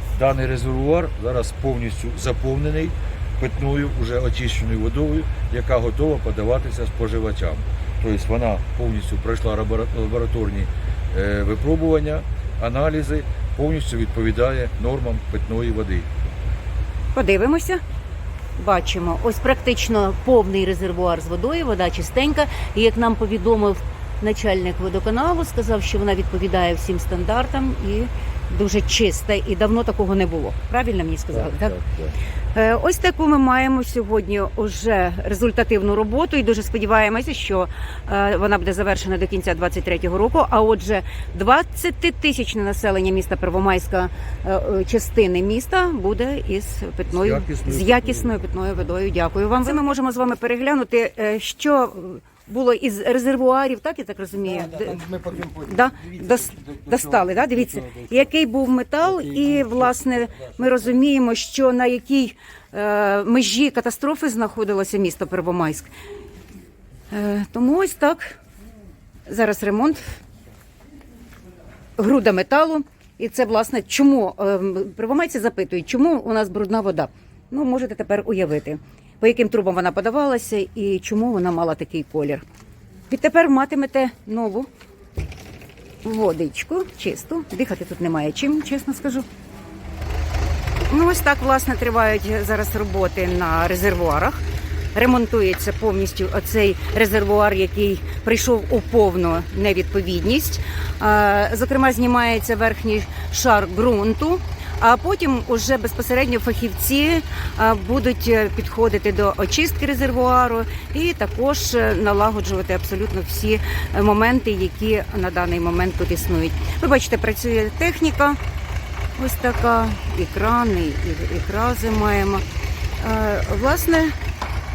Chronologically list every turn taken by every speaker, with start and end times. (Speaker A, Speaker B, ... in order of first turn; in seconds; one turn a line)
Speaker A: 0.1-16.1
Speaker B: 17.1-17.8
Speaker B: 18.6-31.8
Speaker A: 31.3-32.1
Speaker B: 32.5-55.0
Speaker A: 47.1-48.4
Speaker C: 54.4-58.3
Speaker B: 55.7-65.9
Speaker C: 59.0-60.9
Speaker B: 67.1-68.3
Speaker B: 69.3-70.2
Speaker B: 72.0-82.5
Speaker B: 83.1-84.7
Speaker B: 86.0-89.3
Speaker B: 90.9-94.4
Speaker B: 94.9-118.4
Speaker B: 119.2-122.4
Speaker B: 123.0-124.1